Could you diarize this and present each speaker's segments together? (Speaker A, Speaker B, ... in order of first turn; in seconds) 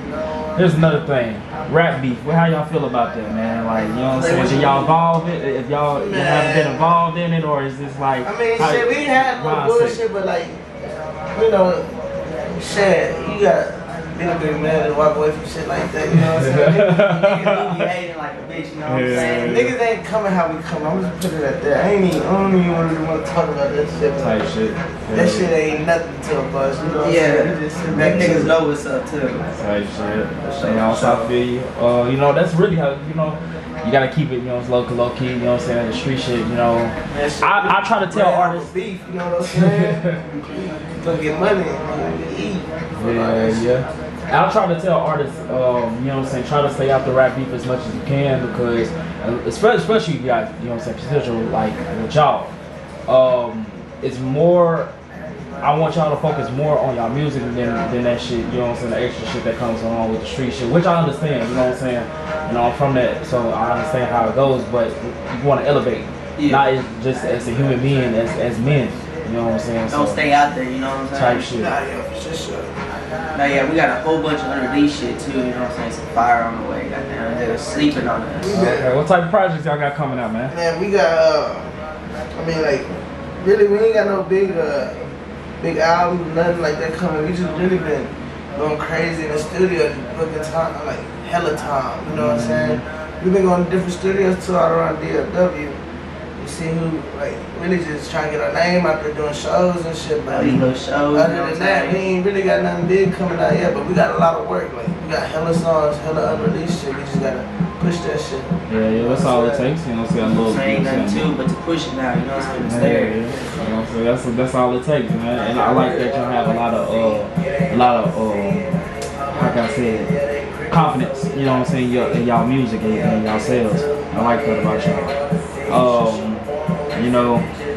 Speaker A: 0.5-10.0, 16.4-17.9, 18.8-19.7, 24.1-25.5, 27.9-28.5, 29.5-38.7, 39.5-40.2, 42.9-52.5, 53.1-54.9, 55.6-70.2, 71.1-71.8, 78.5-80.5, 92.1-92.8, 108.7-111.3, 112.6-118.6, 119.3-120.1, 120.7-125.1, 125.7-127.5
Speaker B: 4.1-4.9, 6.0-6.9, 8.2-10.6, 11.3-11.9, 12.6-17.3, 19.1-24.4, 25.1-28.6, 37.1-43.7, 71.5-72.7, 78.4-78.9, 80.5-81.8, 82.3-85.0, 85.6-95.8, 96.4-109.7, 125.7-126.2
Speaker C: 17.0-19.6, 27.0-29.4, 30.4-31.3, 66.4-66.7, 69.9-71.6, 73.3-78.6, 100.3-102.0, 110.2-113.2